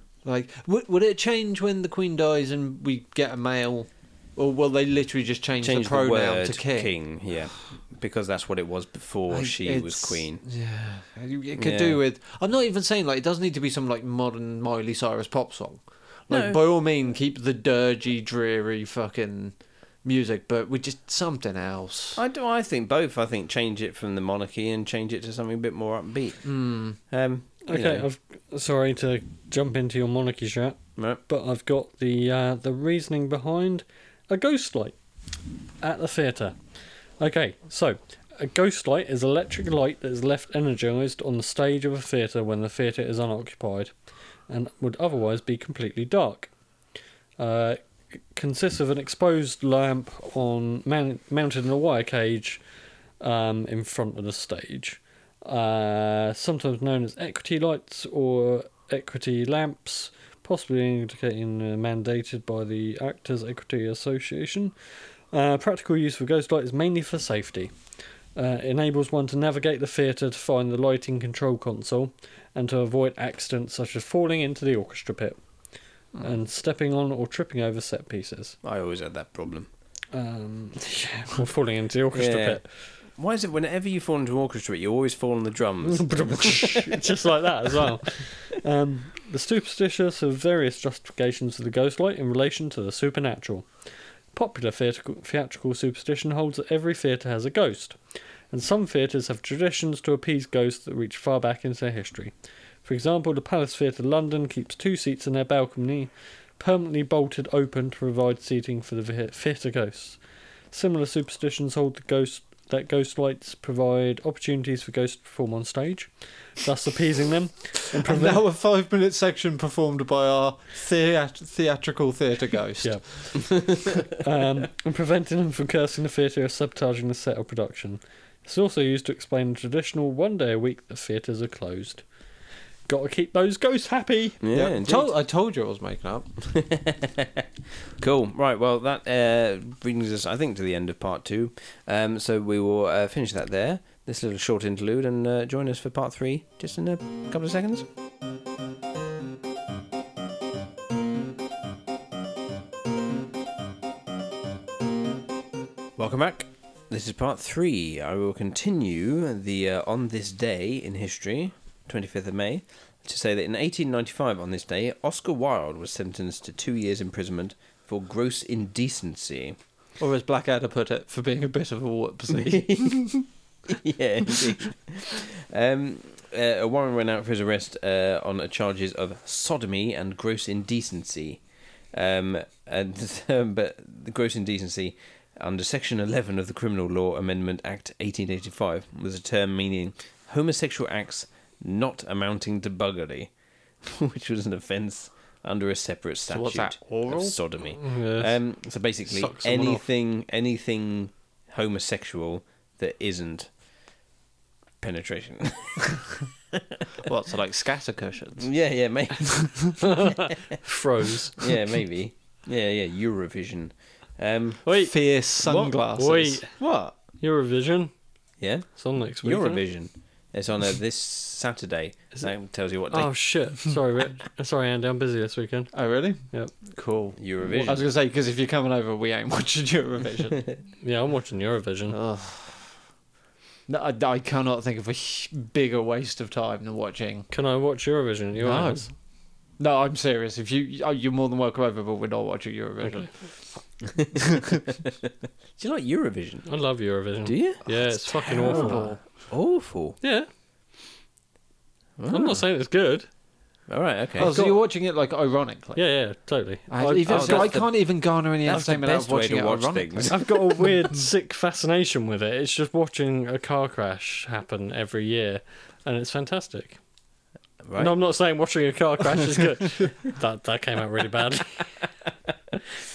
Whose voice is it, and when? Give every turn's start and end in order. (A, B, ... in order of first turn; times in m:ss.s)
0:00.2-0:06.9 A
0:05.6-0:10.4 B
0:09.3-0:22.2 A
0:11.6-0:12.0 B
0:16.3-0:16.6 B
0:22.2-0:28.1 B
0:26.4-0:27.0 A
0:27.7-0:35.0 C
0:35.8-0:36.6 C
0:37.2-0:43.9 C
0:44.5-0:46.5 C
0:47.4-0:52.6 C
0:53.2-1:07.7 C
1:08.4-1:15.4 C
1:16.2-1:18.6 C
1:18.6-1:19.7 B
1:20.1-1:22.6 C
1:22.1-1:22.6 B
1:23.2-1:27.1 B
1:25.8-1:33.7 C
1:34.3-1:38.0 C
1:38.5-1:42.3 C
1:42.8-1:50.2 C
1:50.7-1:58.4 C
1:58.0-2:03.4 A
2:02.8-2:12.0 C
2:12.9-2:14.4 C
2:14.4-2:15.1 B
2:14.5-2:16.5 A
2:16.6-2:17.4 B
2:18.0-2:27.9 B
2:36.0-2:49.6 B
2:50.0-2:53.3 A
2:52.4-2:53.0 B
2:53.7-3:01.4 B
3:01.9-3:23.5 B
3:16.3-3:17.4 A
3:17.8-3:18.3 C
3:19.1-3:19.8 C
3:24.8-3:26.0 B
3:26.5-3:26.8 B
3:27.0-3:28.5 A
3:28.4-3:30.4 B
3:29.8-3:31.4 C
3:31.4-3:34.6 B
3:34.6-3:34.9 C
3:34.8-3:36.4 A
3:35.4-3:35.8 B
3:36.0-3:36.6 C
3:36.5-3:37.0 B
3:37.1-3:37.9 C
3:38.4-3:43.1 B
3:38.8-3:39.6 C
3:42.9-3:45.8 C
3:45.7-3:50.5 A
3:47.2-3:47.8 B
3:50.8-3:52.0 C
3:51.9-3:52.8 A
3:53.7-3:57.3 A
3:57.3-3:58.9 C
3:58.4-3:58.9 A
3:59.6-4:03.6 A
4:02.8-4:03.1 C
4:05.6-4:06.5 B
4:06.5-4:09.0 C
4:07.2-4:10.0 B
4:08.3-4:09.0 A
4:10.0-4:10.3 C
4:12.0-4:12.4 B
4:12.1-4:13.1 C
4:13.7-4:14.3 B
4:14.2-4:15.8 A
4:14.3-4:14.6 C
4:15.8-4:17.6 C
4:16.7-4:20.4 A
4:17.1-4:20.3 B
4:20.1-4:26.8 C
4:27.6-4:28.0 B
4:27.8-4:31.7 C